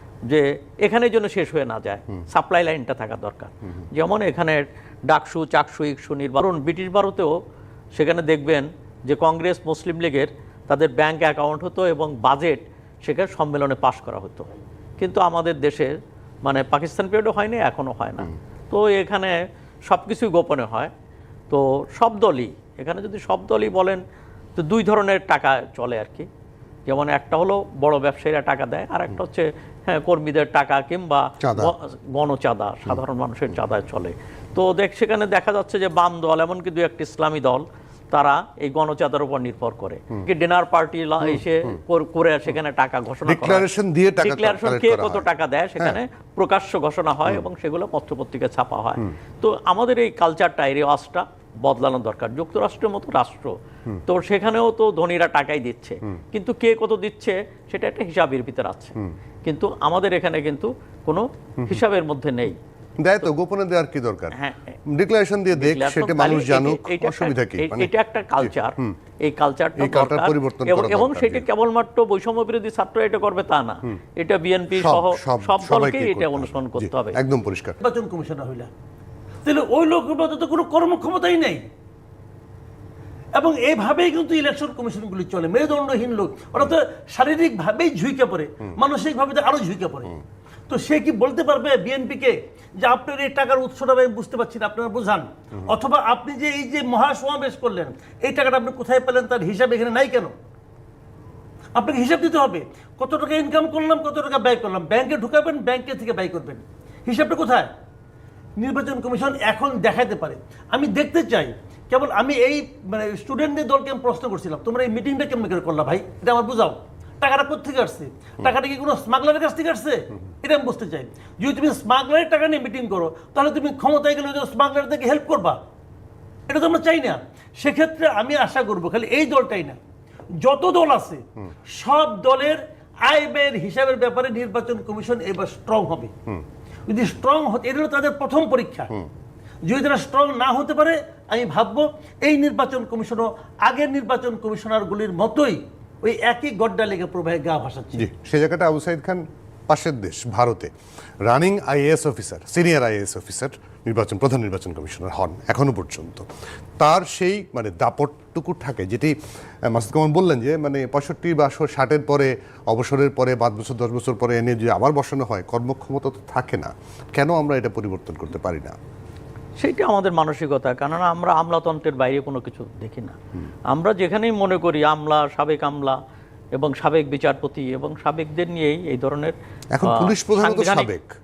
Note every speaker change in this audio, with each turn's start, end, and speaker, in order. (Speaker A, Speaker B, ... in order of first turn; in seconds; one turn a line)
Speaker A: 0.3-7.3
Speaker A: 7.9-14.5
Speaker A: 15.0-15.9
Speaker A: 16.4-19.4
Speaker A: 19.9-20.9
Speaker A: 21.5-24.0
Speaker A: 24.6-26.3
Speaker A: 26.9-43.6
Speaker B: 31.4-31.7
Speaker B: 43.2-45.2
Speaker A: 44.2-53.5
Speaker A: 54.0-62.6
Speaker B: 63.0-64.3
Speaker A: 64.3-64.8
Speaker B: 64.9-69.0
Speaker A: 65.5-77.2
Speaker B: 69.8-71.5
Speaker B: 74.8-77.8
Speaker C: 77.8-78.7
Speaker C: 79.4-81.6
Speaker C: 83.3-90.1
Speaker C: 90.7-100.3
Speaker C: 101.8-107.7
Speaker C: 108.6-125.6
Speaker C: 126.5-129.8
Speaker C: 130.4-136.1
Speaker C: 136.9-138.9
Speaker C: 139.7-148.0
Speaker B: 148.0-150.7
Speaker B: 151.2-156.2
Speaker B: 156.8-159.1
Speaker B: 159.7-168.7
Speaker A: 169.6-173.2
Speaker A: 173.7-176.0
Speaker A: 176.5-180.9
Speaker B: 179.7-181.1